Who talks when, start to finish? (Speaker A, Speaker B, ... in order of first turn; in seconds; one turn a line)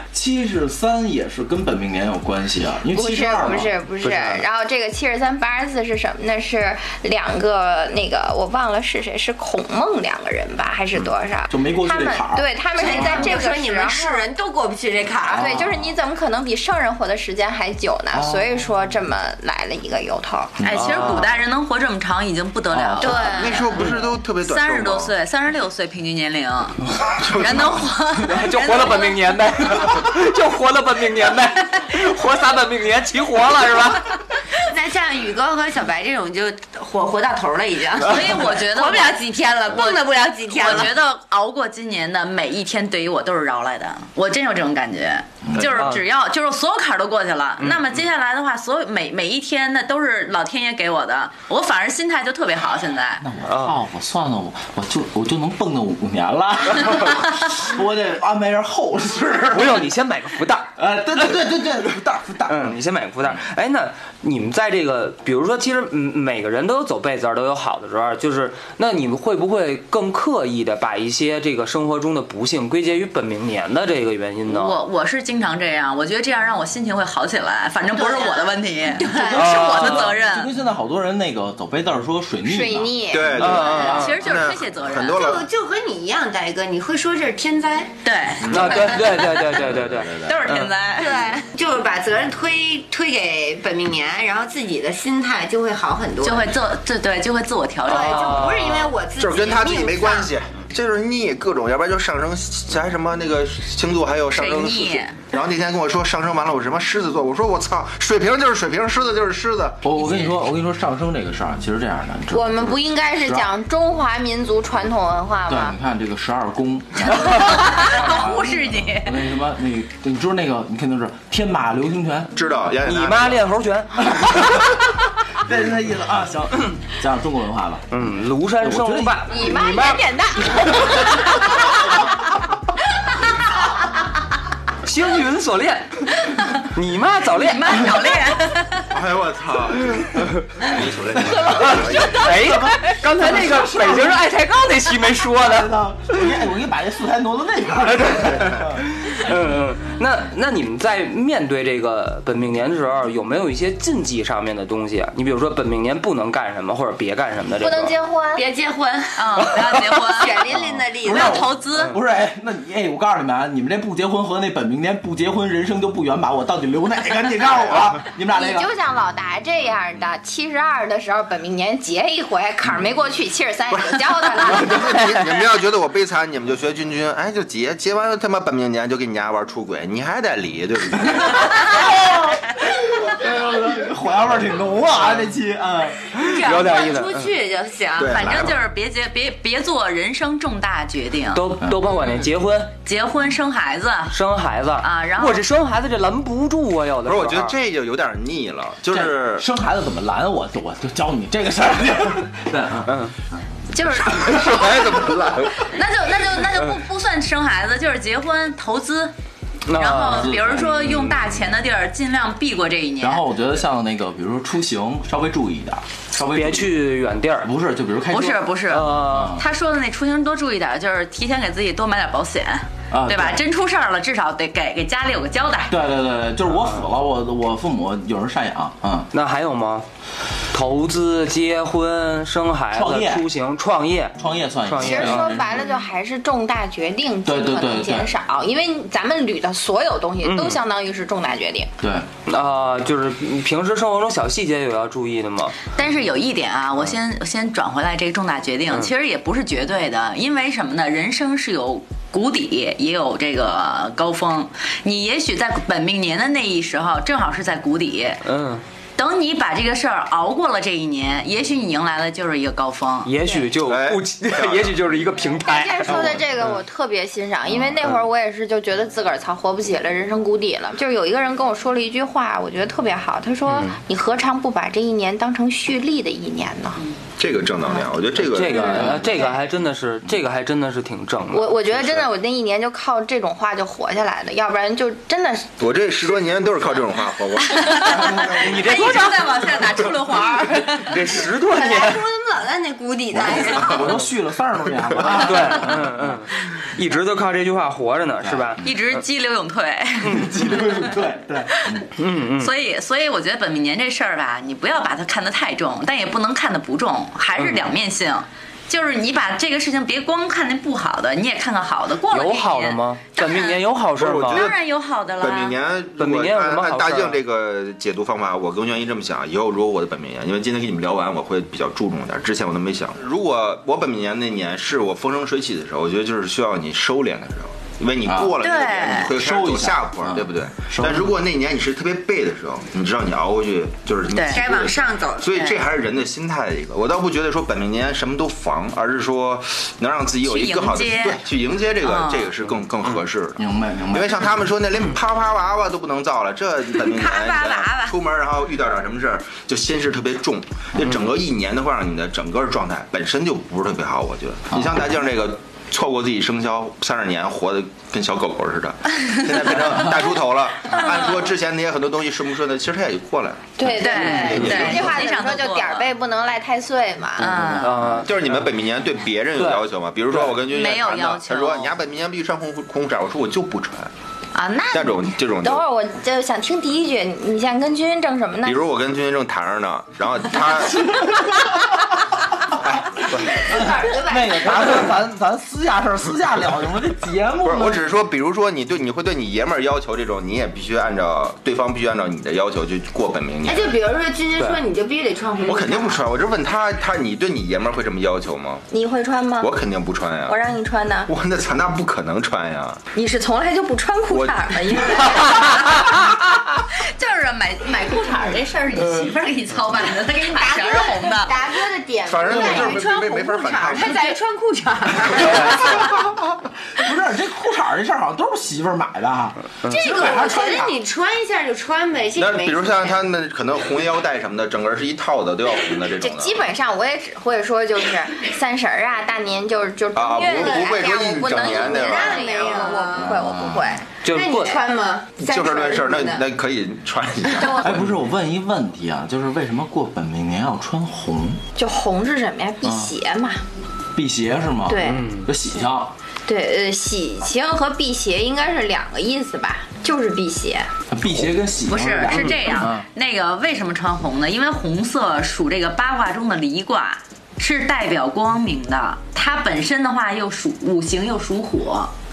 Speaker A: 0.1-3.8
Speaker B: 2.9-14.3
Speaker C: 4.0-4.4
Speaker A: 11.5-13.4
Speaker D: 12.7-15.6
Speaker B: 15.2-20.5
Speaker A: 15.3-16.0
Speaker A: 18.1-18.9
Speaker A: 20.6-21.1
Speaker E: 20.6-23.6
Speaker C: 20.8-21.3
Speaker A: 22.7-23.3
Speaker D: 23.0-23.8
Speaker F: 23.3-25.1
Speaker E: 24.4-29.3
Speaker F: 27.1-27.9
Speaker C: 28.2-34.2
Speaker D: 34.6-41.0
Speaker E: 38.0-53.2
Speaker A: 45.4-45.9
Speaker C: 45.6-46.0
Speaker A: 53.2-59.9
Speaker C: 53.5-53.8
Speaker C: 59.5-60.7
Speaker A: 60.8-62.8
Speaker C: 62.5-74.8
Speaker E: 74.5-80.5
Speaker D: 77.9-79.8
Speaker C: 79.3-80.1
Speaker A: 79.7-83.2
Speaker B: 82.4-83.7
Speaker F: 83.1-85.5
Speaker C: 83.4-84.2
Speaker E: 83.5-85.2
Speaker D: 85.1-87.9
Speaker E: 88.0-89.2
Speaker F: 88.4-88.8
Speaker C: 88.5-90.7
Speaker D: 88.6-89.4
Speaker F: 89.6-90.4
Speaker E: 90.2-91.3
Speaker D: 91.0-96.5
Speaker E: 96.2-98.5
Speaker D: 97.9-100.3
Speaker C: 97.9-98.9
Speaker F: 99.2-109.8
Speaker E: 104.3-105.2
Speaker A: 109.8-113.5
Speaker E: 110.0-110.3
Speaker B: 112.3-115.7
Speaker A: 115.5-122.3
Speaker E: 117.1-119.2
Speaker F: 122.3-123.4
Speaker C: 122.8-124.7
Speaker A: 124.1-124.6
Speaker A: 125.4-127.9
Speaker C: 127.9-130.0
Speaker A: 128.6-129.8
Speaker B: 129.3-131.4
Speaker C: 134.8-137.9
Speaker E: 137.4-138.9
Speaker F: 138.9-142.3
Speaker A: 141.4-144.2
Speaker C: 141.4-146.2
Speaker A: 145.5-148.8
Speaker C: 147.9-157.9
Speaker B: 157.6-158.5
Speaker D: 158.3-161.4
Speaker E: 159.2-160.4
Speaker A: 161.0-168.7
Speaker E: 161.1-161.9
Speaker B: 168.3-175.0
Speaker F: 173.7-181.6
Speaker A: 181.2-186.2
Speaker C: 186.2-187.3
Speaker D: 186.2-188.3
Speaker F: 187.9-188.6
Speaker E: 188.0-191.4
Speaker C: 191.3-192.7
Speaker E: 192.8-194.2
Speaker C: 194.1-197.5
Speaker E: 194.8-195.4
Speaker F: 197.1-199.4
Speaker A: 198.9-203.4
Speaker C: 202.8-203.1
Speaker E: 203.7-204.1
Speaker F: 203.8-205.7
Speaker A: 203.9-205.2
Speaker E: 205.6-209.1
Speaker C: 209.7-211.2
Speaker E: 209.7-213.2
Speaker A: 210.0-210.9
Speaker A: 213.0-216.8
Speaker C: 216.3-217.5
Speaker A: 217.4-219.4
Speaker E: 218.1-225.7
Speaker C: 218.7-219.4
Speaker A: 222.9-223.4
Speaker A: 225.7-229.1
Speaker C: 226.6-226.8
Speaker C: 229.1-229.8
Speaker C: 230.5-235.5
Speaker A: 232.7-233.3
Speaker A: 234.2-235.4
Speaker B: 234.8-241.7
Speaker A: 237.2-238.1
Speaker C: 240.2-240.6
Speaker A: 241.8-242.1
Speaker C: 242.3-245.5
Speaker E: 245.8-258.2
Speaker C: 258.2-258.6
Speaker E: 259.0-263.1
Speaker C: 263.0-266.6
Speaker F: 263.6-265.0
Speaker B: 265.4-276.8
Speaker F: 265.9-266.2
Speaker C: 273.5-273.8
Speaker F: 277.2-279.1
Speaker C: 278.2-282.0
Speaker B: 278.5-279.4
Speaker B: 281.3-285.5
Speaker F: 285.6-288.5
Speaker E: 287.5-291.0
Speaker C: 288.1-289.7
Speaker D: 288.6-289.9
Speaker C: 290.5-292.0
Speaker D: 291.1-293.9
Speaker A: 293.2-296.2
Speaker F: 293.2-293.9
Speaker C: 295.1-298.7
Speaker A: 298.2-298.6
Speaker E: 298.6-300.8
Speaker C: 300.1-300.3
Speaker A: 300.1-301.8
Speaker E: 301.5-313.6
Speaker C: 302.0-302.5
Speaker C: 307.4-307.6
Speaker C: 312.1-314.5
Speaker F: 314.0-314.6
Speaker E: 314.3-315.6
Speaker F: 315.2-363.5
Speaker C: 316.0-317.2
Speaker A: 328.1-328.4
Speaker E: 328.4-329.1
Speaker A: 329.1-331.1
Speaker E: 334.1-334.5
Speaker D: 334.3-335.6
Speaker E: 340.2-341.2
Speaker E: 341.8-342.3
Speaker A: 343.4-344.4
Speaker D: 346.7-348.0
Speaker A: 354.5-354.8
Speaker B: 363.6-367.5
Speaker E: 363.8-365.9
Speaker A: 364.1-364.6
Speaker F: 364.2-365.0
Speaker E: 367.2-368.0
Speaker C: 367.2-368.1
Speaker F: 368.0-373.9
Speaker C: 369.4-369.6
Speaker E: 370.4-371.7
Speaker E: 374.3-375.0
Speaker F: 374.7-375.7
Speaker B: 375.4-378.6
Speaker F: 378.4-380.9
Speaker F: 382.6-383.4
Speaker D: 383.2-384.8
Speaker A: 383.3-387.9
Speaker F: 387.4-393.8
Speaker D: 393.4-396.1
Speaker F: 395.4-398.6
Speaker B: 398.7-399.5
Speaker F: 399.4-400.4
Speaker B: 400.3-401.1
Speaker F: 401.1-402.8
Speaker B: 402.9-405.8
Speaker F: 404.1-404.8
Speaker E: 406.6-411.4
Speaker D: 410.2-415.9
Speaker F: 412.1-414.1
Speaker A: 412.3-412.8
Speaker A: 416.7-420.8
Speaker D: 419.6-423.0
Speaker F: 422.1-426.4
Speaker B: 426.0-433.9
Speaker F: 429.9-432.7
Speaker D: 430.2-433.2
Speaker A: 432.9-433.8
Speaker C: 434.0-434.6
Speaker D: 434.1-436.3
Speaker F: 435.2-437.8
Speaker B: 437.3-437.8
Speaker A: 437.6-441.4
Speaker B: 441.6-443.4
Speaker A: 442.6-442.9
Speaker A: 443.9-445.9
Speaker B: 444.7-445.1
Speaker C: 444.9-445.3
Speaker B: 446.3-450.7
Speaker A: 450.9-452.9
Speaker E: 451.7-461.9
Speaker C: 452.1-452.6